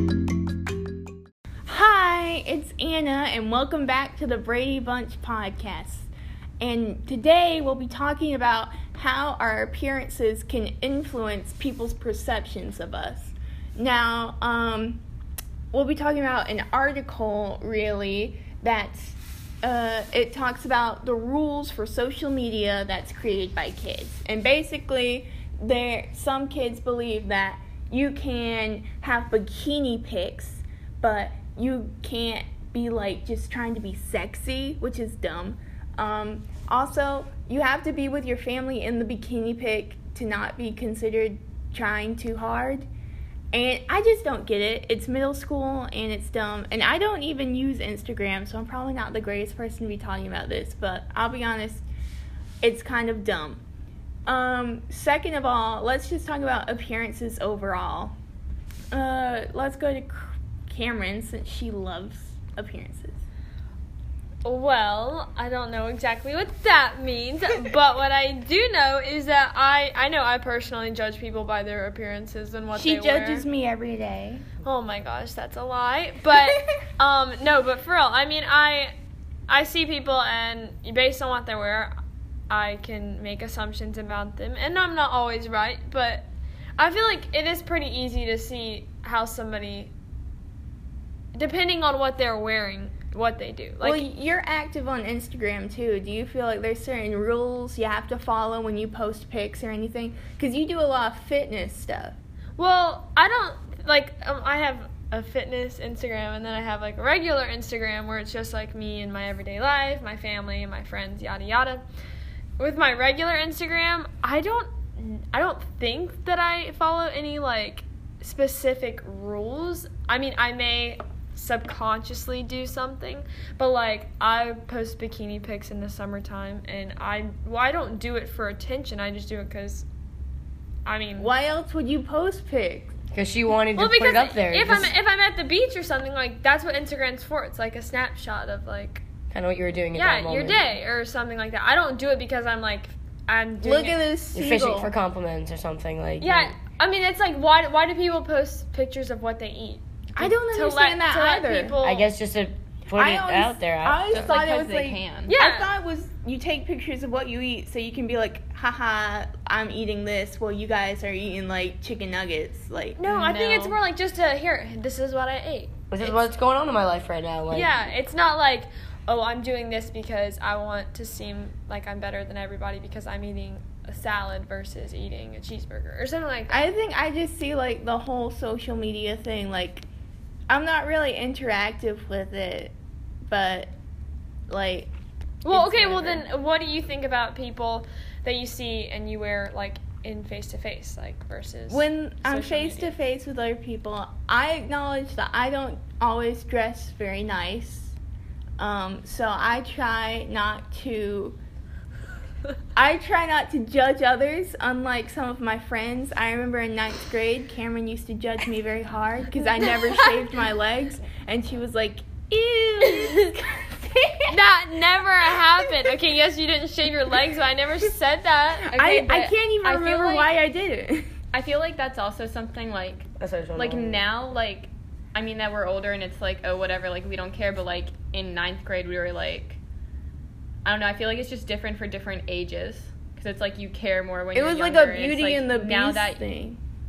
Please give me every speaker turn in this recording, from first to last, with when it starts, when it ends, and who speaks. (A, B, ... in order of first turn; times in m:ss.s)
0:01.7-0:15.0 A
0:15.7-0:42.9 A
0:43.5-0:51.8 A
0:52.6-0:53.6 A
0:54.3-0:58.1 A
0:58.9-1:03.2 A
1:04.4-1:13.5 B
1:12.7-1:14.4 A
1:14.6-1:18.9 B
1:19.5-1:21.9 B
1:22.5-1:29.9 B
1:31.3-1:34.0 B
1:33.8-1:42.2 A
1:42.6-1:51.8 B
1:52.6-2:09.9 B
2:10.8-2:11.3 B
2:11.2-2:12.9 A
2:13.1-2:14.9 C
2:13.8-2:19.0 B
2:19.3-2:20.7 C
2:19.9-2:24.0 B
2:23.6-2:24.9 A
2:24.3-2:26.6 C
2:26.2-2:32.1 B
2:30.2-2:31.8 A
2:31.8-2:34.2 C
2:33.0-2:43.0 A
2:34.1-2:35.3 D
2:35.3-2:35.7 B
2:43.0-2:46.2 B
2:43.0-2:43.8 D
2:45.9-2:47.9 C
2:47.5-2:56.7 B
2:56.5-2:59.9 A
3:00.5-3:02.7 A
3:03.3-3:03.7 A
3:04.5-3:04.9 A
3:05.4-3:13.0 B
3:05.5-3:06.2 A
3:11.7-3:18.0 A
3:18.6-3:21.4 A
3:22.8-3:34.4 A
3:34.3-3:38.7 B
3:38.7-3:41.1 A
3:38.7-3:40.4 D
3:41.3-3:49.6 D
3:43.2-3:44.0 C
3:50.6-3:56.2 D
3:54.3-3:56.6 A